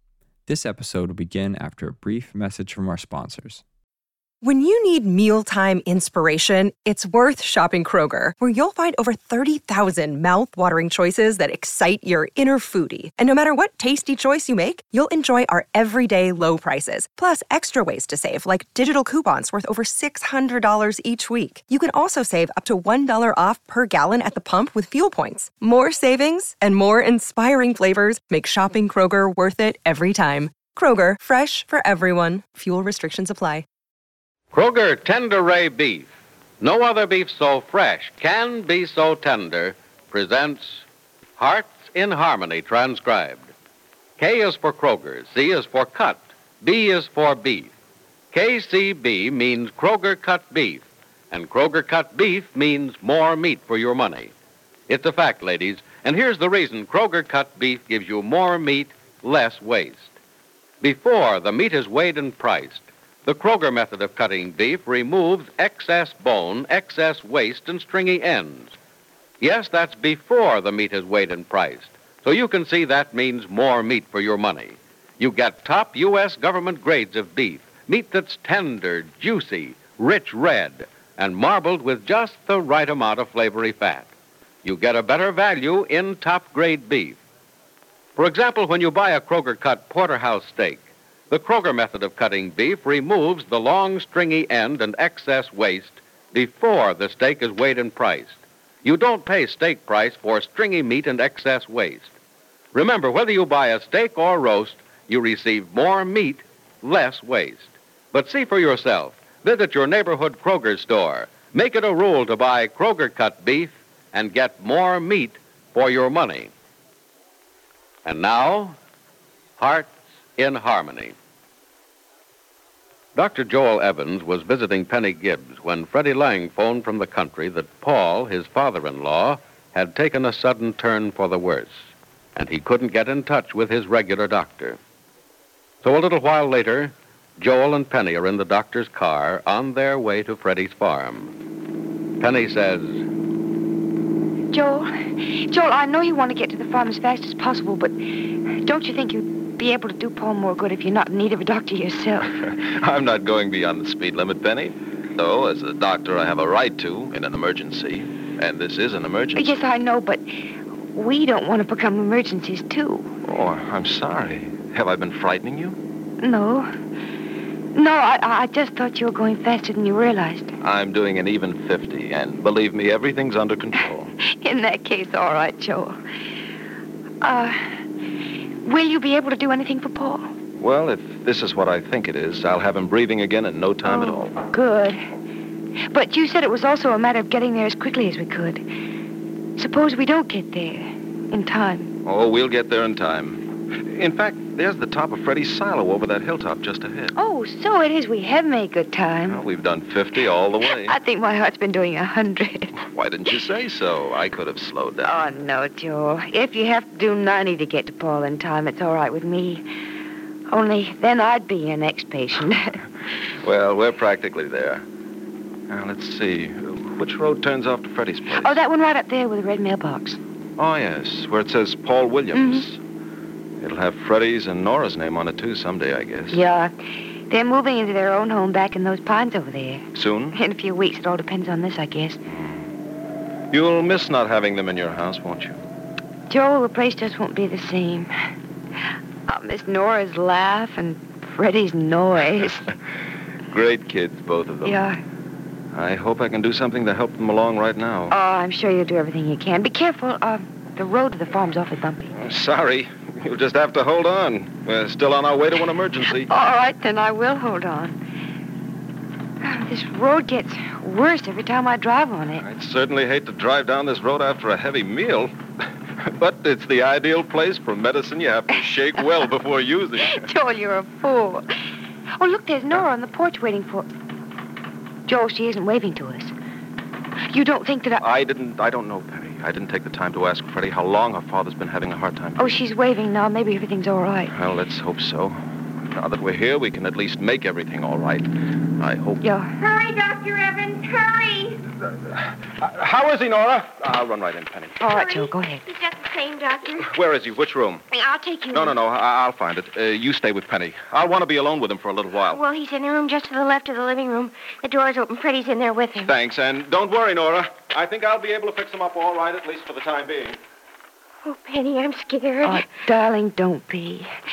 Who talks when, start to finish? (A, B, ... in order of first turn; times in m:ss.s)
0:00.5-0:03.6 A
0:04.4-0:33.6 B
0:34.5-0:36.1 C
0:36.6-0:40.8 C
0:41.4-0:43.5 C
0:44.2-0:47.7 C
0:48.3-0:54.3 C
0:54.9-1:00.1 C
1:00.8-1:08.7 C
1:09.4-1:24.1 C
1:24.6-1:27.2 C
1:28.2-1:42.1 C
1:42.7-1:56.5 C
1:58.0-1:58.8 C
1:59.6-2:01.2 C
2:03.2-2:11.8 C
2:12.4-2:14.8 C
2:15.8-2:21.3 C
2:22.2-2:23.0 C
2:24.5-2:28.0 D
2:28.6-2:32.4 D
2:32.4-2:39.7 E
2:39.4-2:40.2 D
2:40.9-2:43.1 D
2:43.2-2:45.8 E
2:46.2-2:46.7 D
2:47.8-2:50.5 D
2:50.6-2:54.1 E
2:54.2-2:56.0 D
2:57.2-2:57.6 D
2:58.6-3:00.3 D
3:00.6-3:04.4 E
3:03.8-3:05.0 D
3:05.9-3:08.6 D
3:09.6-3:11.9 D
3:12.0-3:17.1 E
3:17.2-3:19.4 D
3:19.3-3:21.0 E
3:20.6-3:22.7 D
3:22.8-3:25.3 E
3:25.0-3:29.6 D
3:30.5-3:32.8 D
3:33.3-3:34.8 E
3:35.7-3:38.6 E
3:38.4-3:40.2 D
3:40.6-3:42.8 E
3:42.3-3:42.6 D
3:43.6-3:46.4 E
3:46.3-3:46.7 D
3:47.3-3:52.2 D
3:49.9-3:50.4 E
3:52.3-3:52.7 E
3:53.5-3:55.6 E
3:56.3-3:58.1 D
3:59.3-4:02.7 D
4:03.5-4:04.8 E
4:04.6-4:05.0 D
4:05.7-4:08.2 E
4:08.1-4:12.1 D
4:12.1-4:16.3 E
4:16.1-4:18.0 D
4:19.4-4:22.4 D
4:22.4-4:25.3 E
4:26.0-4:30.3 E
4:30.3-4:31.4 F
4:32.2-4:33.9 D
4:35.1-4:36.4 D
4:37.3-4:38.0 D
4:38.0-4:42.6 E
4:42.4-4:44.3 D
4:44.3-4:45.4 E
4:45.9-4:49.2 E
4:49.2-4:49.5 D
4:49.6-4:51.6 F
4:52.0-4:54.8 E
4:54.8-4:55.6 D
4:54.8-4:56.9 F
4:56.8-4:57.8 E
4:57.9-4:58.8 F
4:58.5-5:02.4 E
5:02.3-5:06.1 F
5:06.0-5:10.4 E
5:11.2-5:12.7 F
5:12.4-5:14.1 D